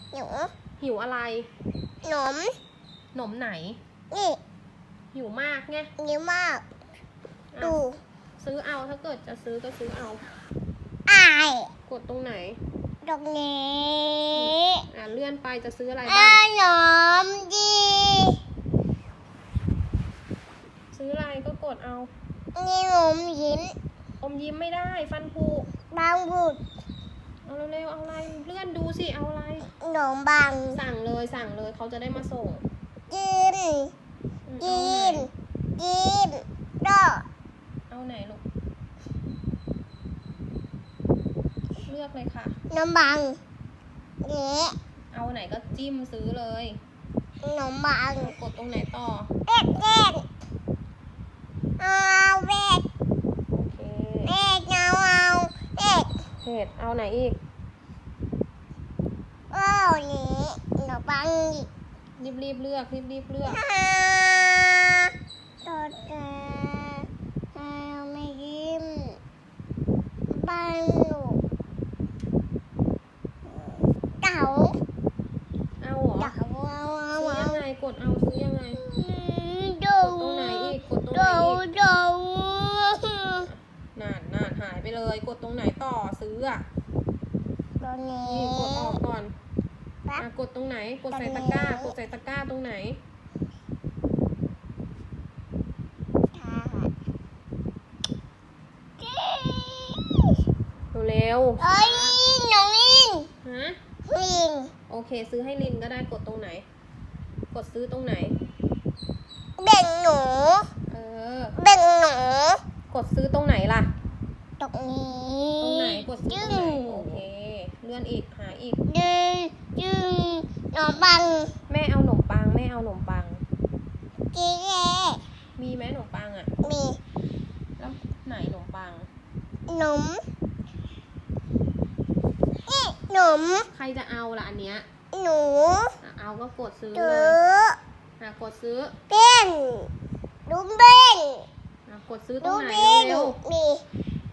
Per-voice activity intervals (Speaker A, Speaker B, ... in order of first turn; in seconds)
Speaker A: 0.1-0.5, 2.0-2.6, 4.1-4.4, 6.0-6.6, 7.6-8.0, 11.1-11.7, 13.0-14.8, 16.1-18.4, 22.6-23.8, 25.9-26.6, 29.8-30.8, 33.1-33.9, 34.6-37.3, 42.7-43.4, 44.2-44.8, 47.4-48.4, 49.5-50.2, 51.8-52.8, 54.3-56.1, 59.5-61.7, 63.5-69.2, 70.3-71.4, 73.5-74.8, 76.2-77.6, 78.8-83.5, 87.8-89.0, 91.1-91.9, 96.3-96.9, 99.0-100.2, 101.6-103.3, 104.1-104.7, 109.6-110.7, 111.6-112.6, 114.6-117.2, 118.9-121.5, 124.3-125.2, 126.6-127.0, 129.7-130.2, 132.7-133.7, 135.1-135.9, 136.9-137.8, 139.1-139.9, 140.5-141.5, 142.4-143.8
Speaker B: 0.8-1.5, 3.1-3.8, 5.1-5.9, 7.5-7.8, 8.4-10.3, 11.9-12.6, 14.3-16.4, 20.9-22.1, 24.2-25.7, 27.4-29.7, 30.7-32.6, 34.5-35.3, 37.9-38.4, 41.9-42.6, 45.1-46.8, 48.2-49.3, 53.5-54.3, 56.4-57.4, 62.2-63.6, 75.8-76.3, 77.2-78.8, 80.0-81.6, 83.5-86.7, 88.2-89.3, 90.2-93.0, 100.9-102.2, 103.4-103.8, 104.9-106.7, 107.5-108.4, 110.9-111.6, 112.9-113.9, 115.6-118.8, 121.7-123.4, 125.6-126.5, 127.8-129.1, 133.7-134.9, 136.0-137.4, 138.2-139.0, 141.9-143.4